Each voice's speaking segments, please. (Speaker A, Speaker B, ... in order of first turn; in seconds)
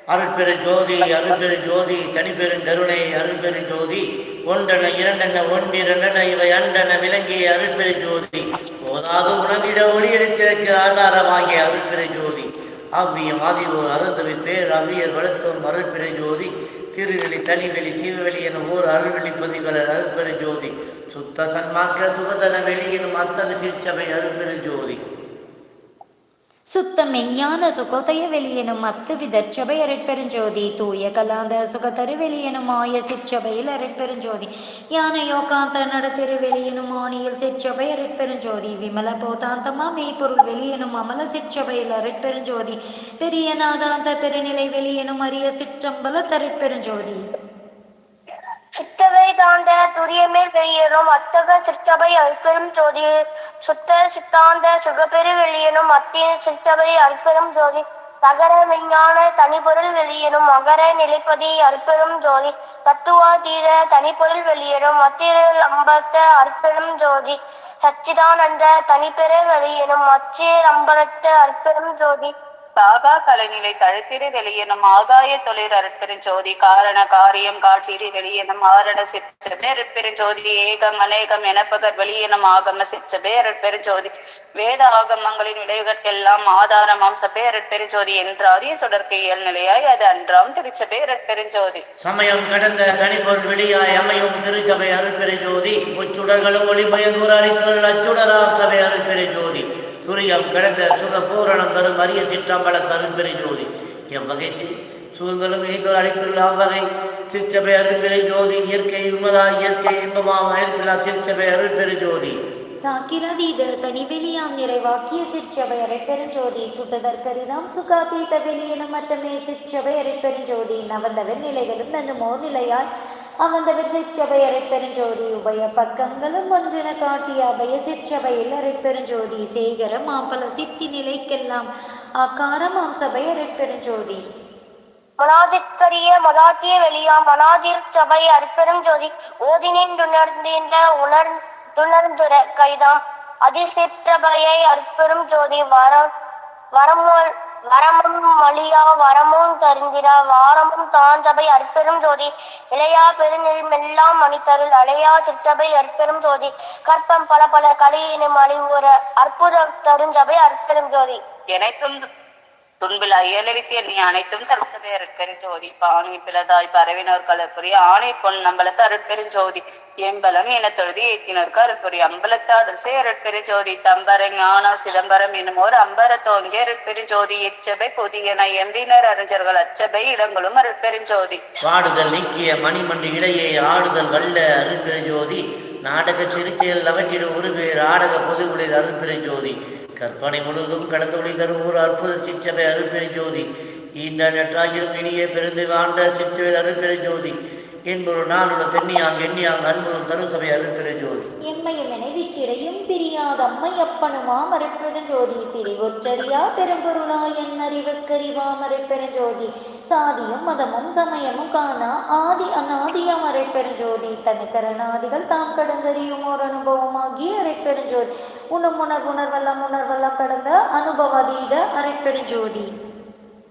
Speaker A: 0.1-25.0, 92.0-112.4, 181.6-193.5, 194.0-197.4, 197.9-201.3
Speaker B: 26.7-47.2, 112.8-122.8, 123.4-131.7, 132.2-134.2, 201.5-222.7
Speaker C: 48.8-53.1, 53.6-72.3, 135.2-146.1, 146.8-161.2
Speaker D: 72.8-91.8, 161.5-162.0, 162.8-181.4